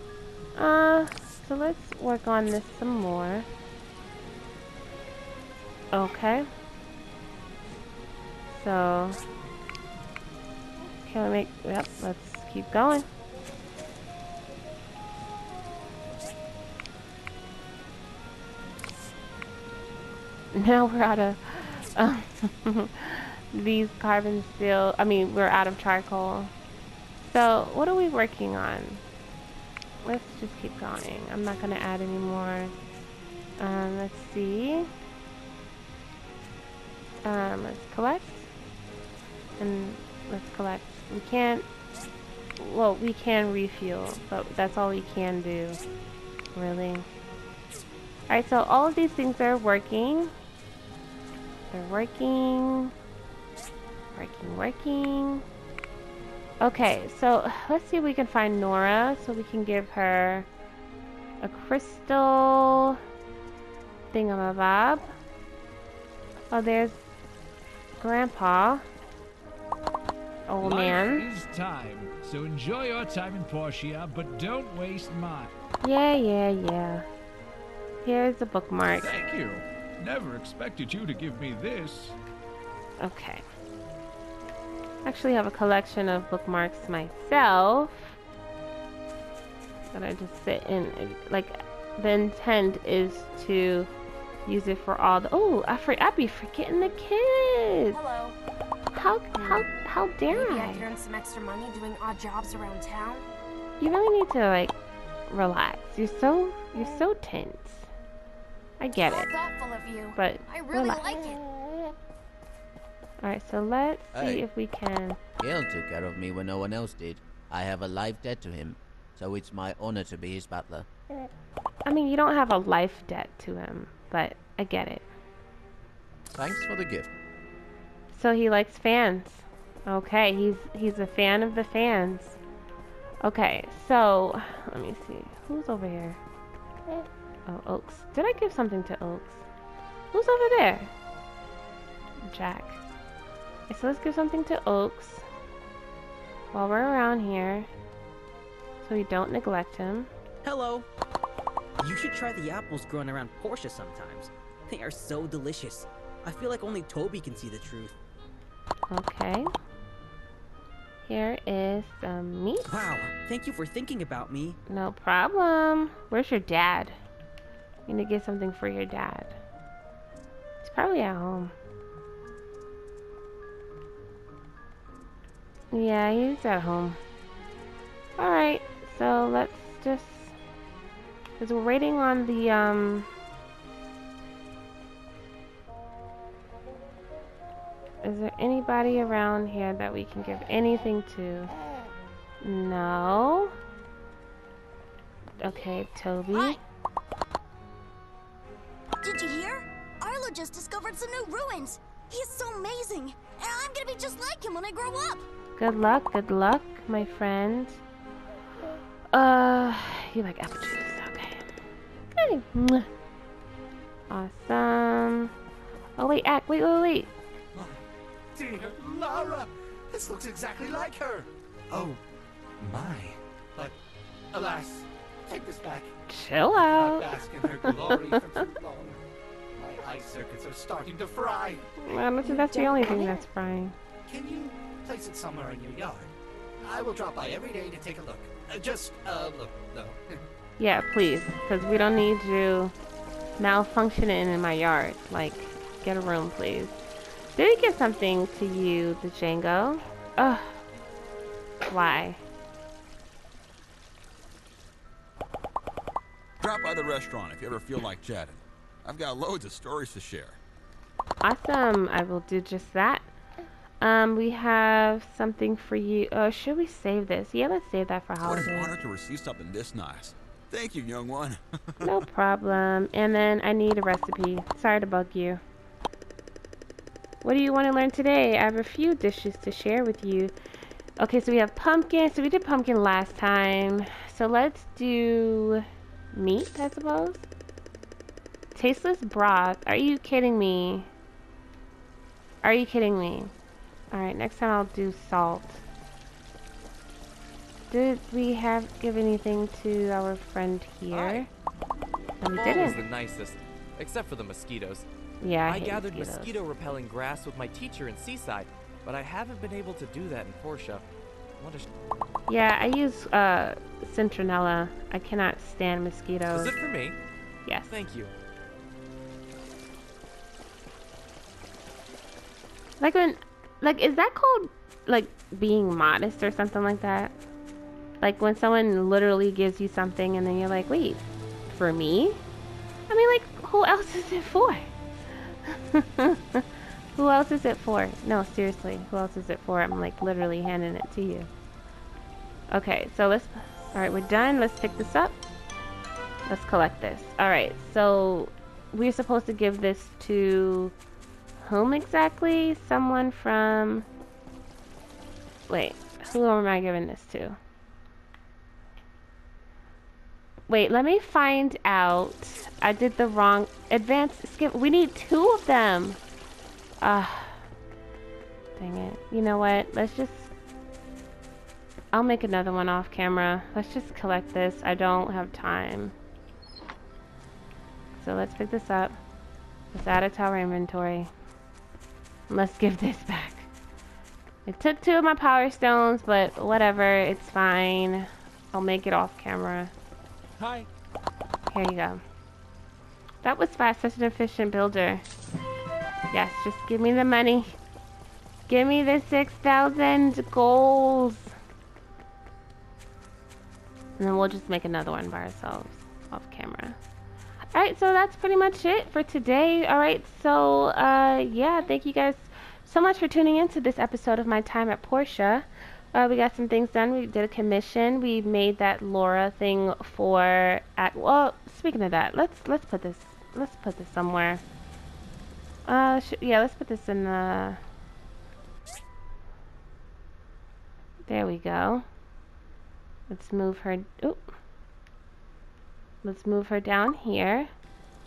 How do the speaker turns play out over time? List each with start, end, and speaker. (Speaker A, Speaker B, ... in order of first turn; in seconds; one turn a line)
Speaker A: 0.6-3.5
Speaker A: 5.9-6.5
Speaker A: 8.5-9.2
Speaker A: 11.0-13.1
Speaker A: 20.5-26.5
Speaker A: 27.2-29.0
Speaker A: 30.0-32.7
Speaker A: 33.6-34.9
Speaker A: 37.2-38.5
Speaker A: 39.6-41.7
Speaker A: 42.6-45.8
Speaker A: 46.5-47.1
Speaker A: 48.3-50.3
Speaker A: 51.7-52.9
Speaker A: 54.1-55.5
Speaker A: 56.6-60.5
Speaker A: 61.4-63.0
Speaker A: 64.1-65.1
Speaker A: 66.5-67.0
Speaker A: 68.0-68.8
Speaker A: 70.5-71.3
Speaker B: 70.6-75.5
Speaker A: 75.8-77.1
Speaker A: 78.0-79.2
Speaker B: 79.0-82.2
Speaker A: 83.0-83.5
Speaker A: 85.0-88.2
Speaker A: 89.9-93.9
Speaker A: 94.5-98.0
Speaker C: 97.9-98.4
Speaker A: 98.9-100.9
Speaker C: 99.3-99.7
Speaker C: 100.3-103.3
Speaker A: 103.8-104.8
Speaker A: 105.3-107.9
Speaker A: 108.8-109.3
Speaker C: 108.9-111.4
Speaker A: 110.2-111.0
Speaker A: 113.2-115.2
Speaker D: 114.2-114.4
Speaker D: 115.4-120.9
Speaker A: 121.9-125.1
Speaker D: 126.3-127.1
Speaker A: 128.1-132.4
Speaker A: 133.2-136.2
Speaker A: 137.5-139.4
Speaker A: 140.1-140.9
Speaker A: 142.3-142.8
Speaker A: 143.7-145.2
Speaker A: 146.5-147.7
Speaker A: 148.8-150.1
Speaker E: 150.4-150.8
Speaker E: 151.8-158.0
Speaker A: 158.9-159.5
Speaker A: 161.1-162.7
Speaker E: 162.7-164.6
Speaker A: 164.7-167.0
Speaker A: 167.9-169.4
Speaker A: 170.6-171.5
Speaker A: 175.7-177.0
Speaker A: 178.2-180.3
Speaker A: 181.4-183.1
Speaker A: 188.0-191.5
Speaker A: 192.4-193.6
Speaker A: 195.4-196.6
Speaker F: 196.3-196.6
Speaker F: 199.0-205.2
Speaker A: 205.6-207.8
Speaker A: 209.1-211.5
Speaker A: 212.1-212.9
Speaker A: 214.1-215.3
Speaker A: 216.0-217.1
Speaker G: 218.3-222.0
Speaker G: 222.6-223.7
Speaker G: 224.3-225.9
Speaker A: 226.1-228.4
Speaker G: 227.0-229.0
Speaker G: 229.6-231.6
Speaker A: 231.8-233.8
Speaker C: 232.2-233.2
Speaker G: 234.1-236.1
Speaker G: 236.6-239.9
Speaker A: 240.6-242.7
Speaker A: 243.4-246.8
Speaker A: 247.4-250.6
Speaker A: 251.7-252.2
Speaker H: 256.4-260.4
Speaker A: 261.2-263.1
Speaker A: 263.8-268.7
Speaker H: 268.2-272.0
Speaker A: 271.8-275.4
Speaker A: 277.2-280.3
Speaker A: 281.0-287.3
Speaker A: 288.6-290.9
Speaker A: 292.4-293.3
Speaker A: 293.9-295.6
Speaker A: 297.7-301.3
Speaker I: 300.9-301.3
Speaker A: 302.2-302.8
Speaker I: 302.3-304.9
Speaker A: 305.2-306.4
Speaker I: 305.5-310.9
Speaker I: 311.4-311.7
Speaker A: 312.3-316.6
Speaker I: 316.3-317.0
Speaker A: 317.5-317.8
Speaker I: 317.7-318.1
Speaker A: 322.8-327.2
Speaker A: 328.0-332.2
Speaker A: 332.9-334.7
Speaker A: 335.5-341.3
Speaker A: 342.5-345.2
Speaker A: 346.3-350.8
Speaker A: 351.4-353.9
Speaker A: 355.5-357.4
Speaker A: 360.5-366.0
Speaker A: 366.8-367.4
Speaker A: 368.6-370.3
Speaker A: 371.9-375.9
Speaker A: 378.0-379.0
Speaker A: 379.7-381.1
Speaker A: 382.3-383.5
Speaker A: 384.5-389.7
Speaker A: 391.5-392.0
Speaker A: 393.2-395.0
Speaker A: 396.1-397.5
Speaker A: 398.5-401.3
Speaker A: 404.0-406.8
Speaker A: 407.5-424.4
Speaker A: 425.7-427.6
Speaker A: 431.1-431.9
Speaker A: 433.1-434.3
Speaker A: 436.0-437.5